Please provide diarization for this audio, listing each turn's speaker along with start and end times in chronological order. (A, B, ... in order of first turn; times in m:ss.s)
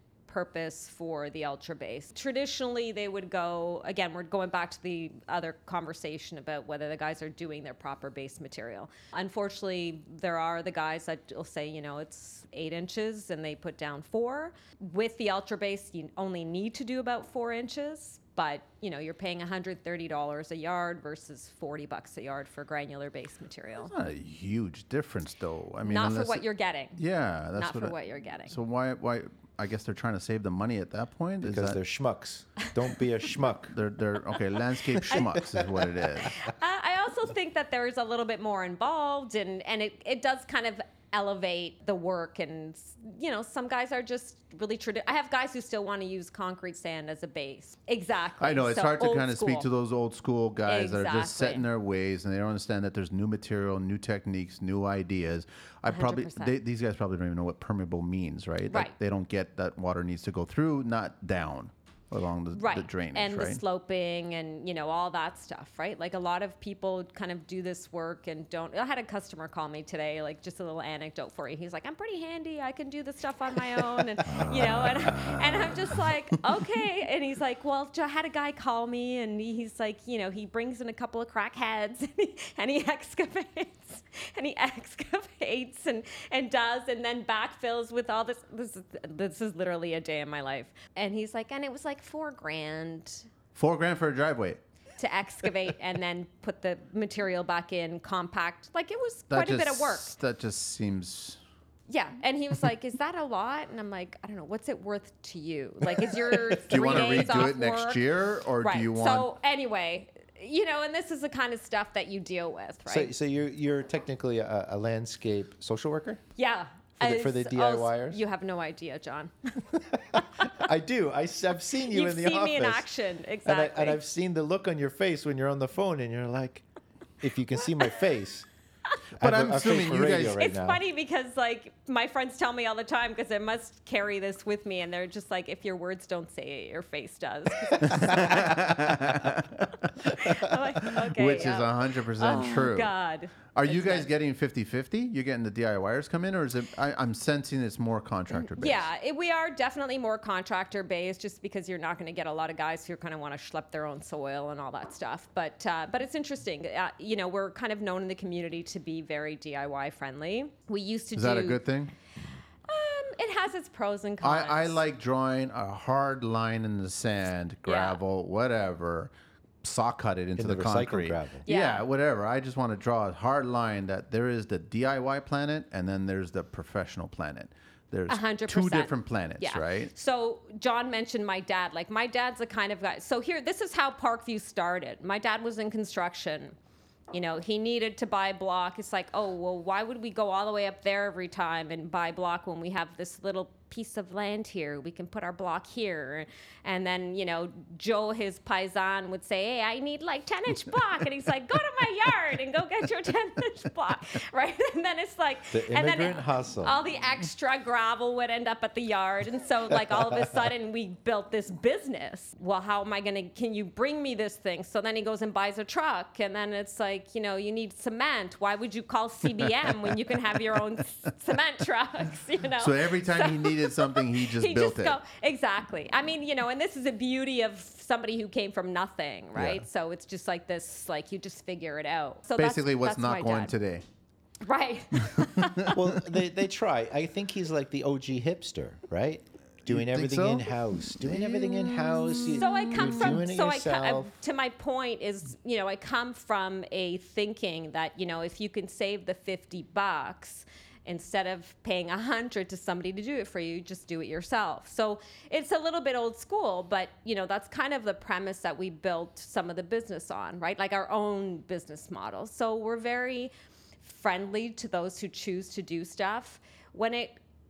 0:00.3-0:23.9 A
0:23.8-0:26.4 B
0:25.8-0:27.0 A
0:27.0-0:28.0 B
0:27.6-0:28.6 A
0:28.5-0:31.8 B
0:31.4-0:33.8 C
0:33.7-0:36.4 B
0:35.0-0:36.0 C
0:36.2-0:49.7 A
0:48.4-1:03.6 B
0:50.6-0:51.6 A
0:55.9-0:56.5 A
0:58.7-0:59.0 A
1:02.5-1:33.3 A
1:14.2-1:16.0 B
1:33.5-1:34.6 B
1:35.0-1:40.1 A
1:39.3-1:41.4 B
1:41.9-1:48.0 A
1:46.6-1:49.3 B
1:48.6-1:53.1 A
1:52.9-1:56.2 C
1:56.4-1:59.3 A
1:57.0-1:58.2 C
1:59.9-2:02.9 C
2:01.9-2:04.0 A
2:03.4-2:06.6 C
2:07.2-2:08.5 C
2:09.2-2:10.8 C
2:09.2-2:10.4 B
2:10.4-2:18.5 A
2:17.8-2:22.9 B
2:20.0-2:24.1 A
2:23.5-2:28.9 B
2:28.3-2:41.6 A
2:41.1-2:41.9 B
2:42.7-2:44.8 A
2:44.2-2:49.1 B
2:47.6-2:48.0 A
2:49.6-2:59.9 B
2:50.4-2:51.5 C
2:51.5-2:51.8 A
2:58.1-3:06.6 A
3:07.1-3:53.5 A
3:25.5-3:26.8 C
3:42.6-3:45.0 B
3:49.4-3:49.6 B
3:52.4-3:53.8 B
3:54.4-3:55.8 A
3:55.1-3:56.0 B
3:55.7-4:04.1 C
3:59.6-4:03.2 B
4:02.3-4:27.2 A